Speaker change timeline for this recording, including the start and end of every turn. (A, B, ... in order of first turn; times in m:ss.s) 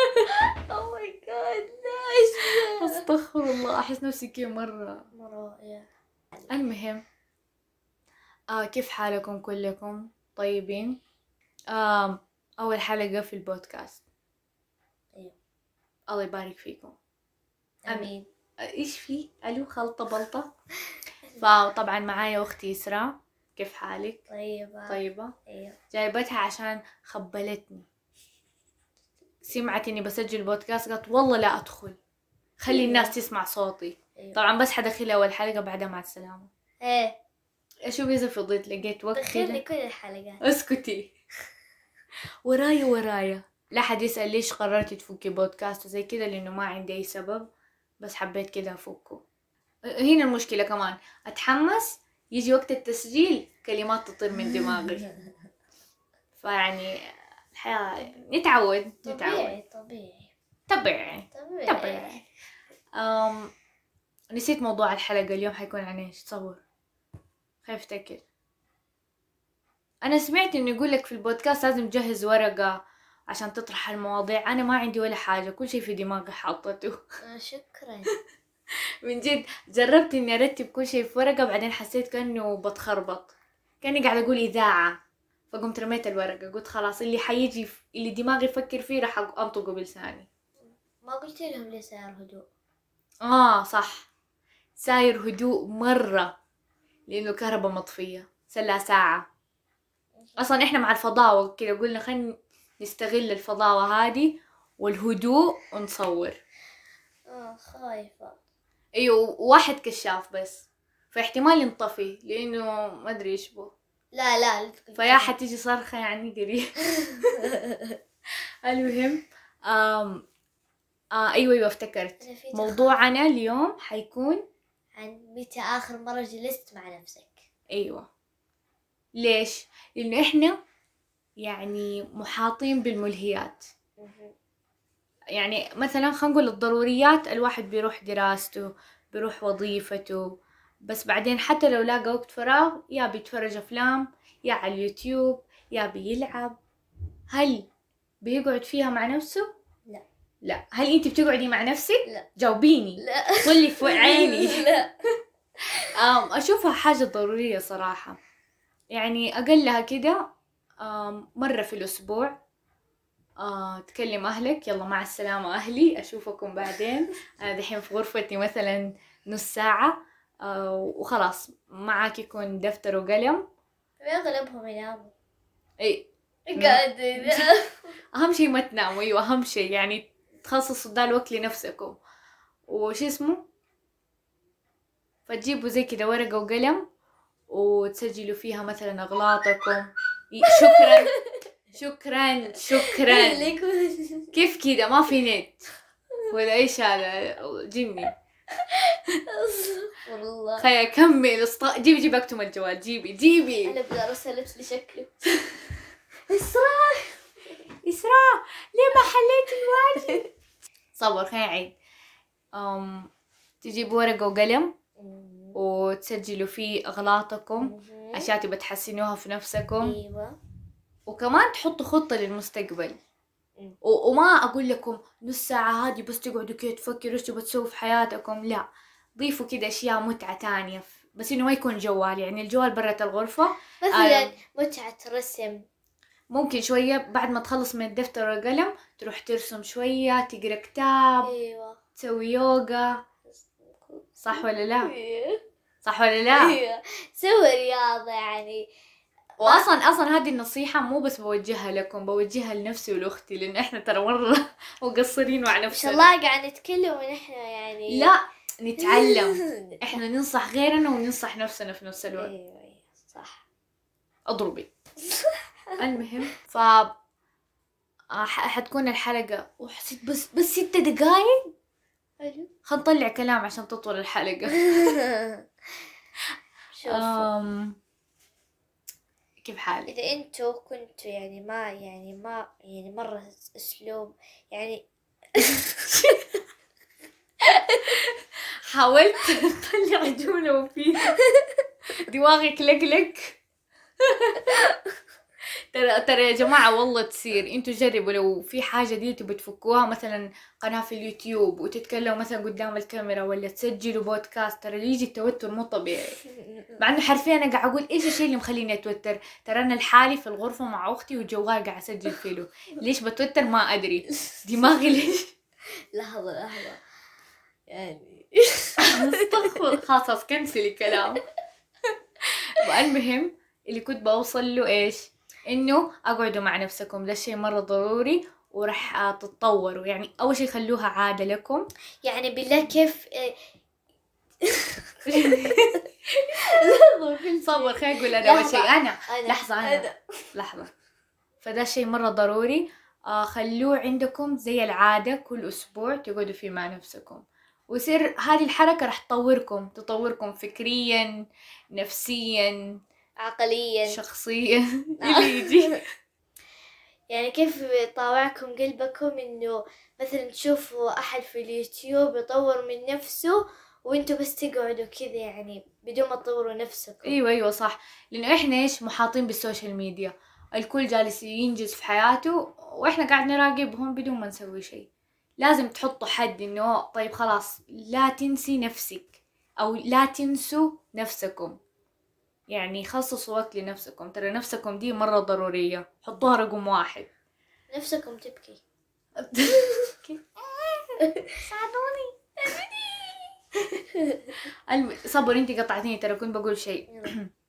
0:00.4-0:03.1 A
0:02.6-0:05.0 B
0:05.2-0:05.9 A
0:06.5-0:07.0 B
0:08.5-0:11.0 B
0:11.7-0:14.0 B
0:16.1-0:17.0 B
0:17.8-0:18.3 A
0:18.6-0:20.5 B
0:21.4-0:24.2 B
0:24.3-0:25.8 A
0:24.9-0:25.3 B
0:25.9-0:27.8 B
0:29.4-0:32.0 B
0:32.6-0:36.5 B
0:32.7-0:33.1 A
0:36.8-0:37.2 A
0:37.9-0:39.6 B
0:39.2-0:40.4 A
0:40.4-0:41.1 B
0:42.4-0:47.5 B
0:48.0-0:49.2 B
0:49.9-0:55.1 B
0:56.4-0:59.6 B
0:59.0-1:00.3 A
1:00.7-1:02.2 B
1:01.3-1:02.2 A
1:03.0-1:03.5 B
1:04.3-1:06.6 B
1:07.6-1:08.2 B
1:10.0-1:17.0 B
1:17.3-1:18.1 A
1:19.0-1:25.0 B
1:25.5-1:30.3 B
1:30.6-1:32.5 A
1:33.2-1:34.1 B
1:34.8-1:36.4 B
1:37.1-1:39.2 B
1:40.4-1:46.4 B
1:47.3-1:48.4 A
1:49.0-1:53.7 B
1:54.1-1:55.3 A
1:55.0-1:57.4 B
1:57.4-1:58.0 A
1:58.6-2:00.2 B
2:01.1-2:04.4 B
2:02.2-2:03.0 A
2:05.0-2:07.4 A
2:07.7-2:08.1 B
2:09.2-2:10.6 B
2:11.4-2:13.7 B
2:14.0-2:14.3 A
2:15.4-2:20.3 B
2:20.8-2:26.6 B
2:27.3-2:27.7 B
2:28.2-2:29.5 B
2:30.4-2:34.7 B
2:33.0-2:34.9 A
2:35.9-2:38.2 B
2:38.9-2:40.2 B
2:40.8-2:42.4 B
2:43.4-2:53.4 B
2:54.0-2:55.1 A
2:55.8-2:57.5 B
2:56.5-2:57.9 A
2:58.1-3:02.0 B
3:02.7-3:03.4 B
3:05.3-3:06.8 B
3:07.5-3:11.1 B
3:10.5-3:11.2 A
3:11.8-3:13.5 B
3:12.7-3:14.3 A
3:14.3-3:15.6 B
3:16.3-3:18.1 B
3:18.6-3:20.7 A
3:20.6-3:23.8 B
3:23.6-3:25.4 A
3:26.3-3:27.2 A
3:27.8-3:30.2 B
3:31.0-3:31.7 B
3:32.5-3:33.1 B
3:33.6-3:34.7 B
3:35.0-3:35.6 A
3:35.5-3:40.0 B
3:37.6-3:38.3 A
3:39.8-3:40.4 A
3:41.1-3:43.0 B
3:43.8-3:54.3 B
3:53.8-3:55.6 A
3:56.3-4:01.3 B
4:01.2-4:01.8 A
4:02.0-4:03.0 B
4:03.3-4:05.4 A
4:04.2-4:04.9 B
4:05.8-4:06.6 B
4:06.3-4:08.6 A
4:09.4-4:09.6 A
4:09.4-4:16.1 B
4:15.7-4:18.1 A
4:17.9-4:22.3 B
4:18.8-4:19.8 A
4:22.1-4:23.4 A
4:24.3-4:24.7 B
4:25.0-4:25.4 A
4:25.8-4:26.9 B
4:28.1-4:31.5 B
4:32.2-4:32.5 A
4:32.6-4:35.0 B
4:34.7-4:35.4 A
4:36.7-4:37.3 A
4:36.9-4:37.8 B
4:39.4-4:39.9 B
4:39.9-4:46.2 A
4:47.5-4:48.0 A
4:47.9-4:48.1 B
4:48.7-4:51.2 B
4:52.1-4:53.4 B
4:54.1-4:54.6 B
4:55.7-5:06.2 B
5:06.3-5:06.8 A
5:06.8-5:15.3 B
5:15.9-5:16.8 A
5:17.7-5:19.5 A
5:18.9-5:21.2 B
5:22.6-5:31.6 B
5:32.0-5:33.4 A
5:34.4-5:35.7 A
5:35.0-5:35.8 B
5:36.4-5:40.0 A
5:37.2-5:40.7 B
5:41.4-5:51.1 B
5:51.8-5:52.6 B
5:53.2-5:54.0 A
5:53.9-5:55.8 B
5:55.0-5:55.7 A
5:57.1-6:07.2 A
6:07.0-6:14.9 B
6:15.4-6:21.6 B
6:22.5-6:27.1 B
6:27.7-6:28.6 A
6:29.2-6:32.6 B
6:32.5-6:32.9 A
6:33.8-6:34.3 A
6:34.7-6:37.3 B
6:36.9-6:37.1 A